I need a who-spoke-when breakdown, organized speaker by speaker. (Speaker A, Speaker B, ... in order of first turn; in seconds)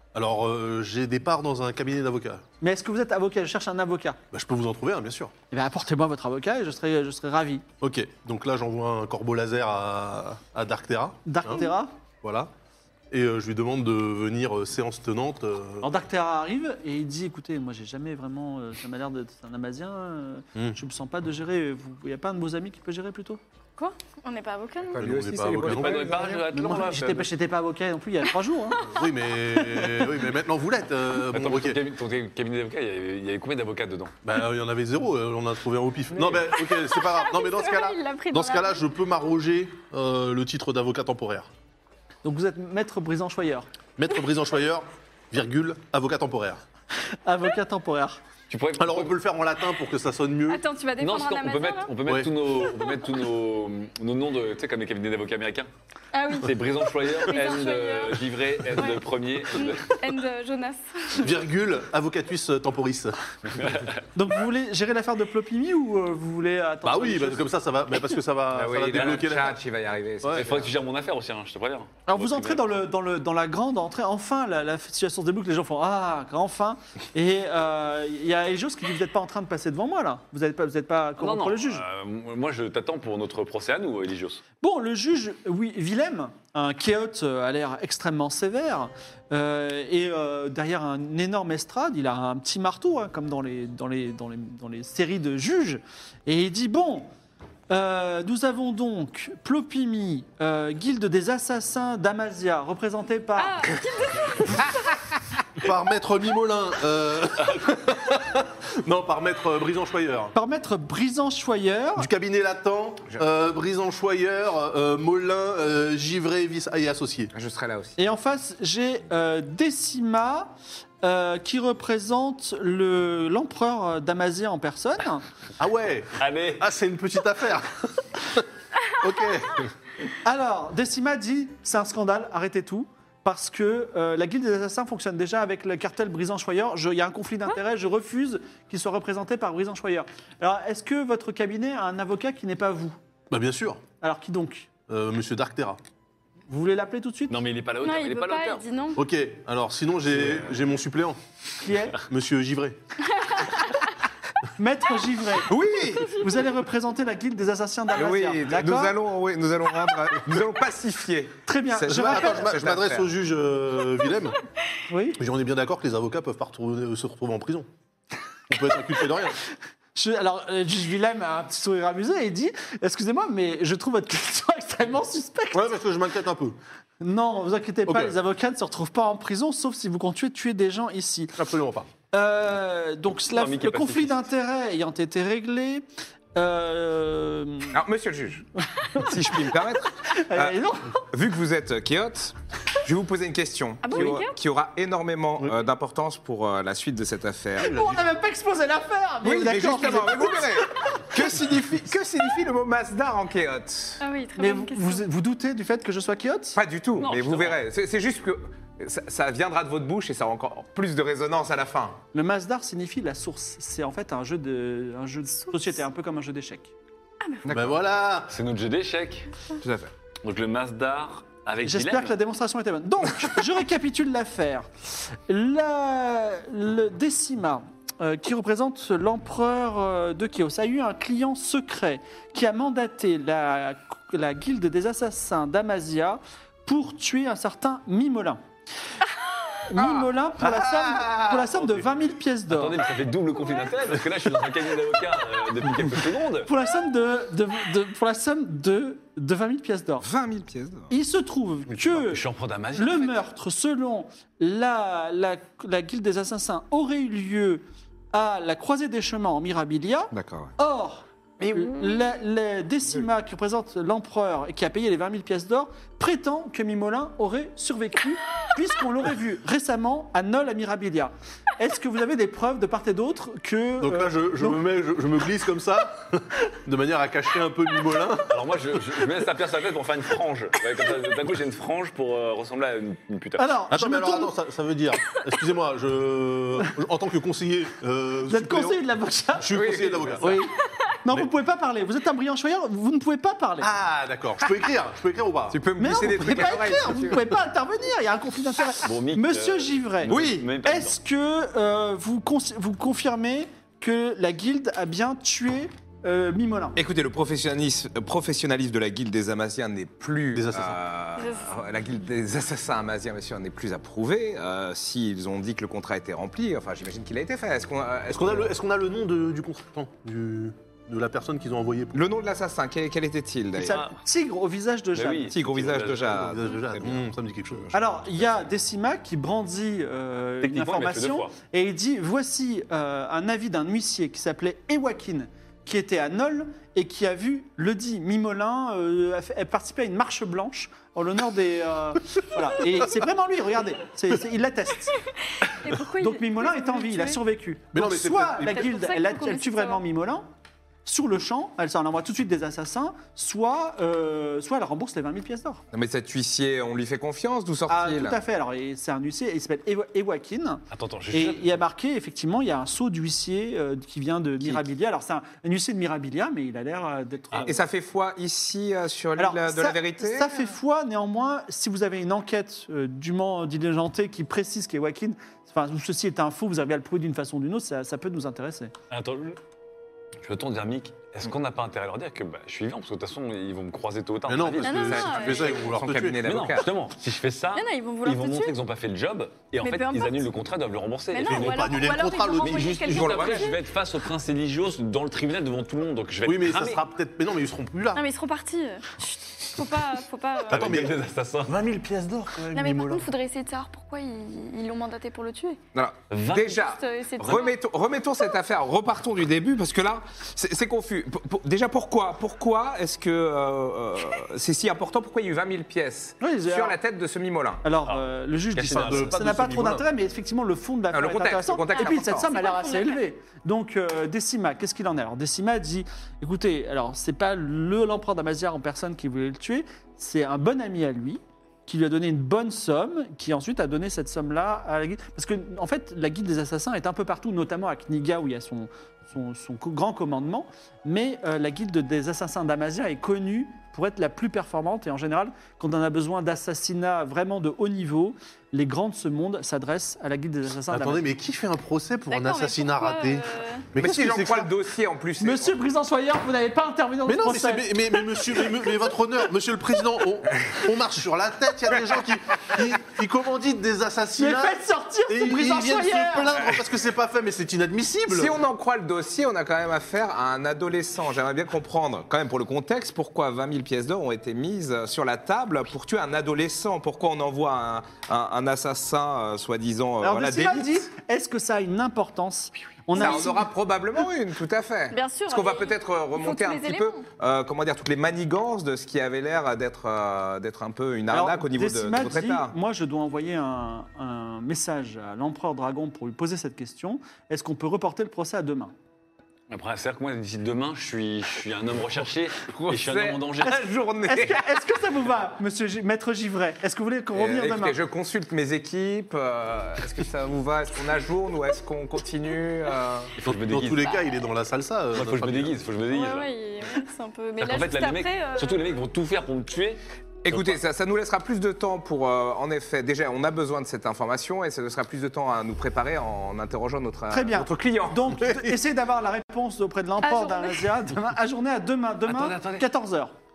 Speaker A: 0.1-2.4, 4.3-5.3, 7.8-11.7, 12.2-12.5, 13.1-15.9, 25.0-27.0, 28.8-31.8, 34.2-41.5, 44.0-46.6, 48.8-50.6, 52.0-52.3, 61.2-63.7, 66.8-69.6, 70.2-70.5, 105.6-110.3, 112.0-117.3, 125.6-128.4, 129.0-129.7, 143.3-143.8, 144.9-145.8, 149.0-151.2, 152.1-152.8, 161.9-164.4, 165.2-167.7, 168.5-169.4, 175.5-176.6, 177.9-178.1, 181.4-181.9, 197.6-198.0, 217.5-218.3, 240.5-241.8, 273.8-278.4, 283.7-288.8, 289.4-290.5, 293.6-295.6, 310.3-310.8, 318.1-322.0, 325.8-327.7, 347.7-348.7, 384.3-386.2, 391.2-393.0, 396.2-398.0, 400.5-403.1, 418.7-419.9, 450.7-454.5, 457.1-468.4, 513.2-515.6, 528.2-528.5
Speaker B: 2.6-4.2, 5.5-7.6, 11.3-12.0, 15.8-23.4, 26.1-28.9, 29.7-30.1, 42.2-43.7, 47.2-48.2, 64.2-67.5, 72.1-81.8, 84.6-97.1, 97.7-103.7, 110.3-112.1, 118.0-125.2, 130.2-143.0, 144.0-144.7, 146.5-147.4, 151.6-152.0, 154.6-155.5, 156.1-159.0, 161.5-162.5, 164.9-165.2, 169.9-175.7, 177.0-181.4, 182.1-187.8, 188.8-189.2, 190.1-191.1, 197.6-200.6, 204.4-206.6, 212.1-216.7, 221.6-238.4, 239.7-242.8, 246.5-250.1, 250.9-252.2, 252.8-274.6, 283.4-284.3, 288.3-289.5, 290.2-293.7, 295.8-306.8, 323.6-325.3, 327.7-345.0, 346.0-350.2, 350.9-355.6, 357.7-367.6, 369.2-378.7, 416.2-416.8, 417.6-451.1, 455.2-457.7, 464.2-466.3, 480.0-483.5, 491.1-498.7, 504.1-507.8, 527.1-533.1
Speaker C: 23.8-25.0, 36.7-38.9, 50.5-51.9, 56.1-56.5, 57.1-61.3, 103.4-104.9, 147.8-149.0, 153.1-153.8, 193.8-194.3, 204.0-205.0, 217.2-217.5, 311.2-311.5, 345.4-347.2, 348.5-349.8, 384.6-385.7, 387.6-388.6, 389.6-390.3, 391.1-393.6, 397.9-400.7, 402.5-405.6, 406.6-407.6, 421.7-423.0, 452.1-453.7, 484.9-487.0, 515.9-518.7, 530.0-530.8
Speaker D: 24.9-26.4, 68.5-70.7, 117.3-118.0, 155.5-156.2, 157.9-163.1, 187.7-197.8, 199.2-204.0, 206.6-212.0, 217.4-217.8, 219.6-219.9, 239.8-240.1, 250.0-250.9, 260.1-260.5, 289.5-290.3, 295.5-297.4, 300.1-300.5, 306.8-318.6, 321.9-323.8, 325.3-328.4, 355.7-358.2, 367.4-370.6, 384.9-386.7, 392.9-393.6, 405.7-417.6, 420.9-422.4, 453.8-455.6, 468.1-480.9, 482.9-492.6, 502.5-504.5, 507.1-513.1, 520.2-528.1
Speaker E: 25.5-27.2, 31.3-34.2, 48.5-49.2, 51.0-55.7, 56.4-60.0, 63.5-64.0, 68.9-69.5, 70.3-72.7, 81.2-84.4, 126.2-126.6, 147.3-148.6, 150.1-150.6, 183.3-184.3, 207.0-207.6, 218.3-219.3, 220.2-222.2, 242.5-246.5, 252.1-253.2, 278.3-283.5, 298.8-301.0, 323.6-323.9, 324.9-326.1, 330.4-331.3, 360.7-361.6, 378.9-379.4, 380.2-385.0, 386.2-396.8, 400.5-401.6, 406.1-406.6, 418.6-419.2, 499.5-503.6, 513.2-514.0, 514.9-516.3, 517.4-520.6, 532.1-532.7